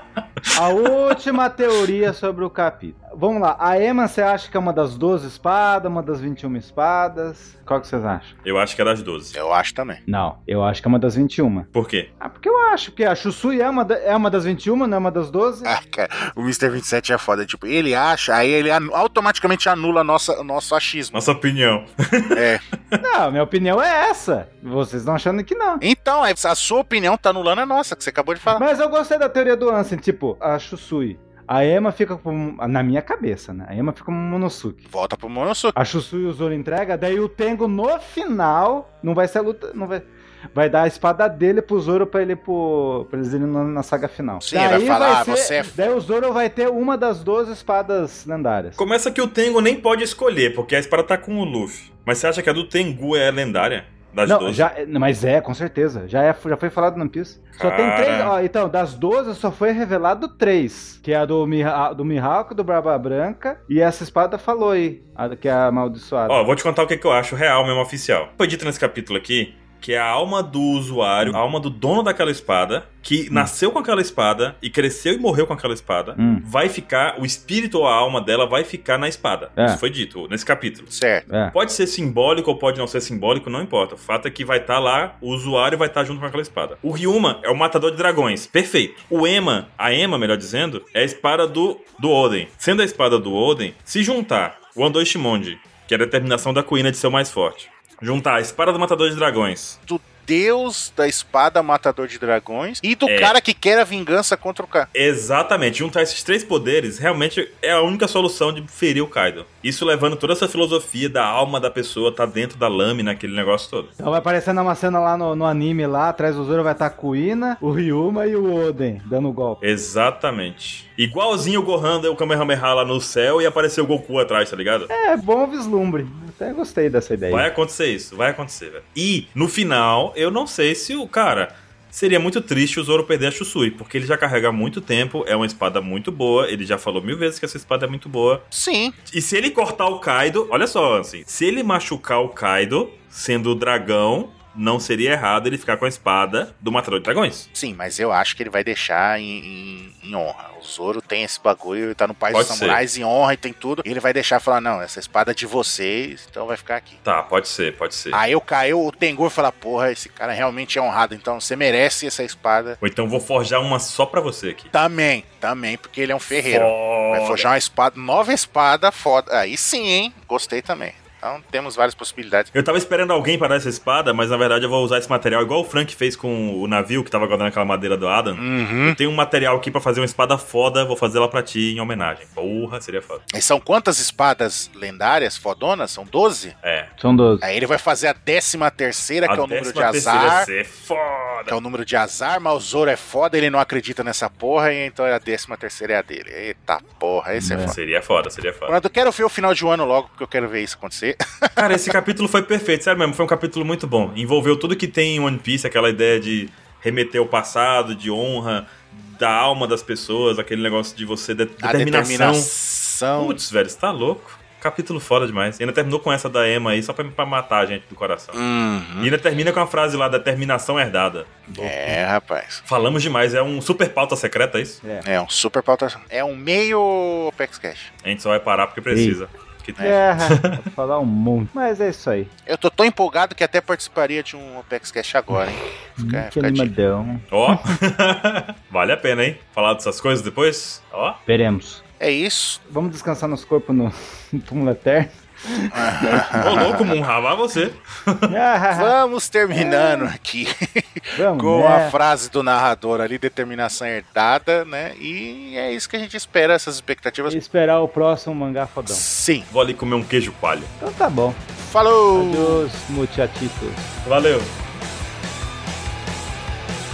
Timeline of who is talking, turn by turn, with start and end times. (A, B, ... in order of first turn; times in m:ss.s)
0:00.5-0:08.4 A
0:08.4-0:09.4 B
0:09.3-0:10.0 C
0:10.1-0:11.7 A
0:11.7-0:12.1 B
0:12.2-0:15.7 A
0:15.6-0:21.2 C
0:21.1-0:23.0 B
0:22.3-0:22.6 C
0:23.0-0:25.8 A
0:25.8-0:28.6 C
0:28.5-0:34.8 A
0:34.9-0:35.8 C
0:35.8-0:48.8 A
0:44.4-0:45.7 C
0:48.8-0:54.7 B
0:54.2-1:06.4 A
0:57.6-0:58.3 B
1:06.3-1:20.9 B
1:16.2-1:16.4 A
1:20.9-1:21.3 C
1:21.3-1:21.5 A
1:21.4-1:39.8 B
1:39.9-1:44.9 C
1:43.0-1:43.3 B
1:44.9-1:53.9 B
1:54.0-1:59.6 A
1:59.6-2:04.9 B
2:04.9-2:07.5 A
2:07.3-2:18.4 B
2:18.5-2:18.9 C
2:19.1-2:27.5 B
2:27.5-2:37.0 C
2:32.3-2:32.8 B
2:37.0-2:38.2 B
2:38.1-2:42.8 C
2:42.8-2:44.7 B
2:44.7-2:52.5 C
2:46.4-2:47.5 B
2:52.5-3:03.2 B
2:58.4-2:59.0 C
3:03.3-3:06.5 C
3:06.6-3:06.9 B
3:07.0-3:07.4 A
3:07.4-3:10.5 C
3:09.2-3:11.6 B
3:11.5-3:17.8 C
3:17.4-3:17.7 A
3:17.7-3:18.7 B
3:18.7-3:21.7 C
3:21.6-3:32.5 B
3:31.6-3:33.4 C
3:33.2-3:38.4 B
3:38.3-3:39.1 C
3:39.0-3:41.3 B
3:41.5-3:42.0 A
3:41.5-3:42.6 C
3:42.6-3:44.8 B
3:45.0-3:47.9 C
3:48.0-3:50.6 B
3:48.9-3:49.2 A
3:49.8-3:52.3 A
3:52.4-3:56.7 C
3:56.0-3:57.7 A
3:57.3-4:01.2 B
4:01.3-4:01.8 A
4:02.0-4:02.6 C
4:02.7-4:06.2 A
4:05.7-4:06.9 C
4:06.4-4:08.3 B
4:08.3-4:08.9 A
4:08.7-4:17.4 C
4:09.5-4:10.1 A
4:11.2-4:11.9 A
4:17.3-4:19.0 A
4:18.8-4:19.5 C
4:19.5-4:20.7 B
4:20.8-4:21.4 A
4:21.6-4:22.6 C
4:22.1-4:23.9 A
4:24.0-4:24.5 B